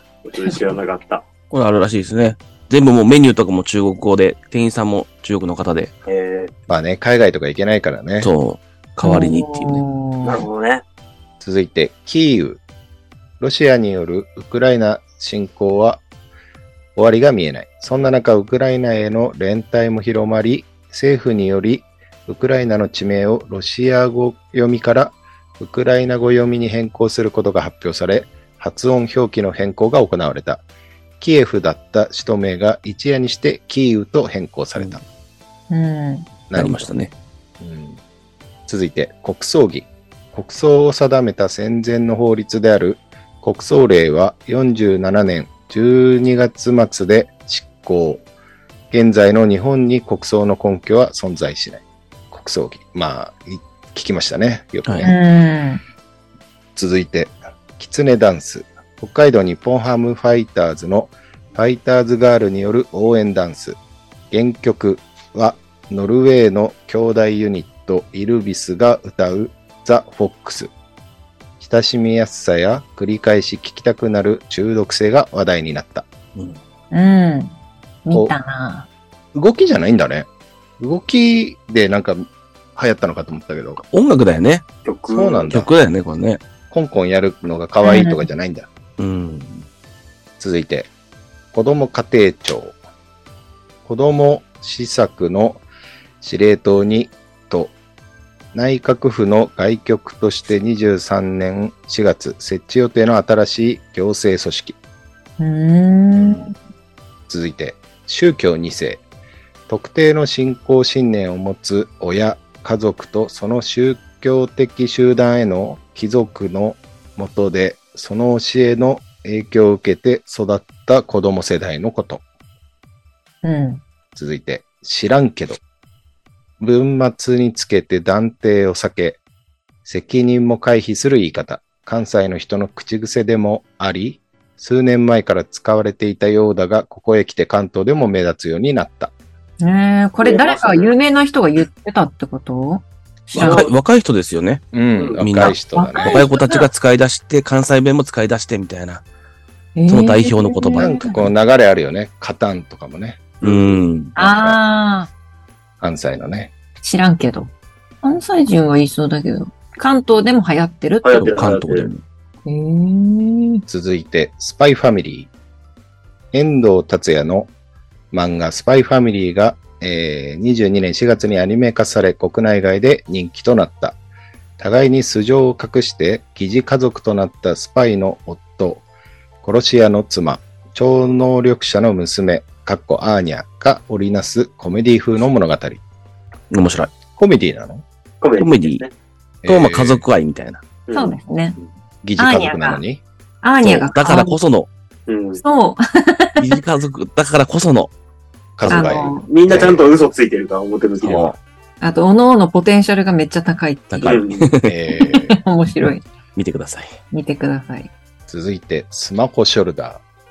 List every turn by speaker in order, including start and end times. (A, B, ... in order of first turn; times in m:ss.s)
0:00.2-0:01.2 A
0:01.5-0:05.9 B
0:06.1-0:06.5 A
0:06.7-0:08.3 C
0:08.2-0:09.8 B
0:09.0-0:10.5 D
0:10.2-0:10.8 A
0:11.4-0:12.6 C
0:13.4-0:16.0 C
0:17.0-0:30.6 C
0:31.2-0:35.0 C
0:35.7-0:36.3 D
0:36.5-0:36.9 C
0:36.6-0:37.1 B
0:37.6-0:38.0 C
0:38.7-0:48.2 C
0:48.9-0:55.2 C
0:55.0-0:55.8 D
0:56.8-1:03.8 C
1:04.3-1:10.7 C
1:11.6-1:16.1 C
1:16.9-1:18.9 D
1:19.3-1:20.3 C
1:20.8-1:23.8 C
1:23.8-1:24.6 B
1:24.8-1:25.6 A
1:25.1-1:25.7 C
1:25.5-1:26.4 B
1:26.7-1:28.7 C
1:27.8-1:28.3 D
1:29.0-1:29.7 B
1:30.4-1:30.9 C
1:31.5-1:32.8 C
1:33.8-1:35.6 C
1:36.2-1:37.7 C
1:38.5-1:44.8 C
1:45.4-1:46.5 D
1:47.3-1:49.0 C
1:49.7-2:02.2 C
2:03.4-2:03.8 D
2:04.2-2:05.6 C
2:06.6-2:09.2 C
2:09.9-2:19.1 C
2:19.6-2:23.7 D
2:20.2-2:20.9 A
2:23.3-2:24.6 B
2:23.4-2:23.7 A
2:24.7-2:26.2 C
2:25.0-2:25.2 A
2:25.2-2:29.0 B
2:25.7-2:26.7 D
2:29.8-2:31.3 D
2:29.9-2:31.0 B
2:30.8-2:33.4 C
2:33.4-2:33.8 A
2:33.4-2:34.1 B
2:34.2-2:34.6 C
2:34.2-2:35.1 D
2:35.8-2:36.5 C
2:36.8-2:41.3 D
2:41.0-2:41.9 A
2:41.2-2:42.0 B
2:42.5-2:43.6 D
2:43.7-2:45.3 C
2:46.3-2:47.5 C
2:48.1-2:54.0 C
2:54.6-2:58.8 C
2:59.4-3:05.8 C
3:06.5-3:06.9 B
3:07.1-3:07.8 C
3:08.2-3:08.9 A
3:08.4-3:08.8 B
3:09.4-3:10.0 C
3:09.5-3:10.6 B
3:10.9-3:11.2 A
3:10.9-3:11.6 D
3:12.0-3:13.0 C
3:12.2-3:12.8 D
3:13.4-3:14.4 D
3:13.6-3:14.7 B
3:15.1-3:15.4 A
3:15.4-3:16.5 D
3:16.4-3:17.9 B
3:18.6-3:19.9 C
3:18.7-3:19.3 D
3:18.7-3:21.4 A
3:21.0-3:21.4 B
3:21.8-3:24.2 D
3:23.9-3:24.8 B
3:24.0-3:24.5 A
3:24.6-3:25.4 C
3:24.9-3:26.0 D
3:26.4-3:27.0 B
3:27.1-3:27.9 D
3:28.3-3:30.0 C